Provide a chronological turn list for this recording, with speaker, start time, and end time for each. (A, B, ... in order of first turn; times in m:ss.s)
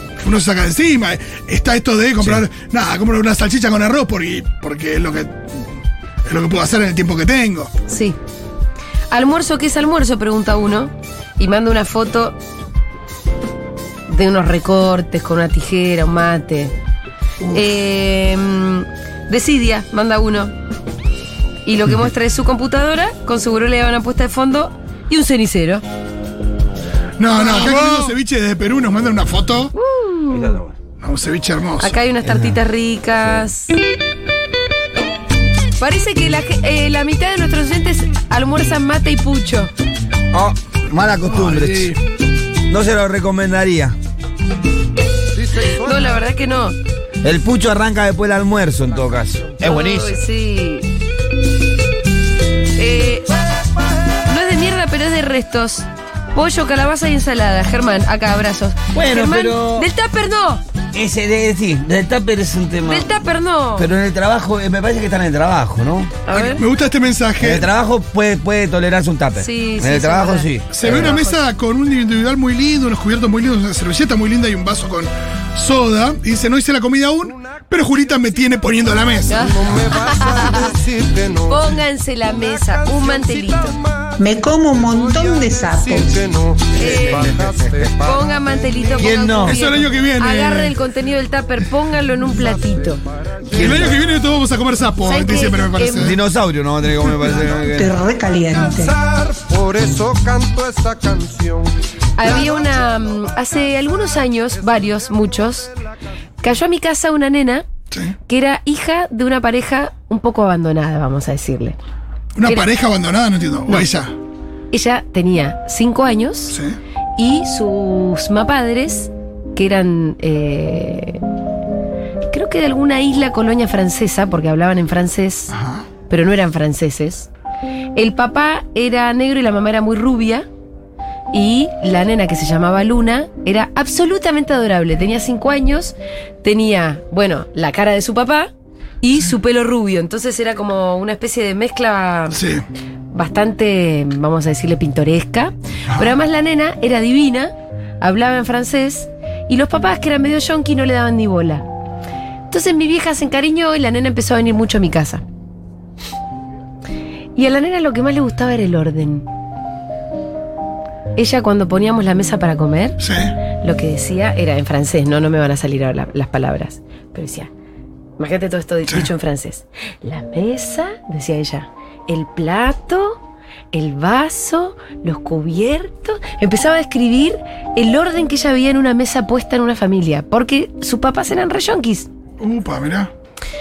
0:00.2-0:05.6 A
0:06.3-0:07.7 A
0:07.9-0:08.2 B
0:09.1-0:12.4 B
0:14.1-0:16.8 B
0:17.4-0:17.7 A
0:17.5-0:20.5 B
0:21.6-0:25.8 B
0:27.2-0:29.7 A
0:27.3-0:28.1 B
0:29.8-0:30.6 B
0:30.3-0:30.8 C
0:31.0-0:32.0 A
0:31.8-0:33.8 B
0:32.2-0:32.6 C
0:35.8-0:39.7 B
0:40.3-0:42.0 C
0:41.3-0:42.0 A
0:42.7-0:44.0 C
0:45.6-0:46.8 B
0:47.2-0:50.2 C
0:49.6-0:50.9 B
0:52.8-0:53.3 B
0:54.2-1:00.6 B
0:58.9-0:59.9 C
1:00.9-1:03.1 C
1:02.8-1:03.9 B
1:03.8-1:06.2 C
1:06.2-1:06.6 B
1:06.3-1:07.7 A
1:07.4-1:11.2 C
1:09.4-1:11.4 B
1:10.7-1:19.7 A
1:19.3-1:20.8 B
1:19.4-1:21.6 D
1:21.5-1:23.8 B
1:22.8-1:23.2 D
1:24.2-1:26.1 E
1:25.9-1:28.3 D
1:26.8-1:27.3 B
1:26.8-1:27.7 C
1:28.0-1:33.0 B
1:29.0-1:29.6 C
1:29.4-1:30.8 A
1:33.5-1:36.2 A
1:33.5-1:34.0 C
1:35.0-1:36.1 B
1:36.0-1:38.0 C
1:37.7-1:38.9 E
1:39.0-1:41.7 D
1:42.2-1:45.7 B
1:46.4-1:47.7 B
1:47.9-1:48.2 A
1:48.3-1:51.8 B
1:52.4-1:54.1 A
1:54.7-1:56.6 B
1:56.5-1:56.8 A
1:57.2-2:01.2 B
2:02.3-2:05.5 B
2:05.5-2:05.9 A
2:06.1-2:07.3 B
2:08.0-2:10.5 B
2:11.3-2:18.5 B
2:19.0-2:22.4 B
2:22.3-2:22.6 A
2:23.1-2:31.6 B
2:32.5-2:35.2 B
2:37.4-2:39.3 B
2:41.2-2:43.0 B
2:43.0-2:43.3 A
2:43.6-2:47.5 B
2:48.2-2:53.2 B
2:53.7-3:02.1 B
3:02.4-3:03.1 A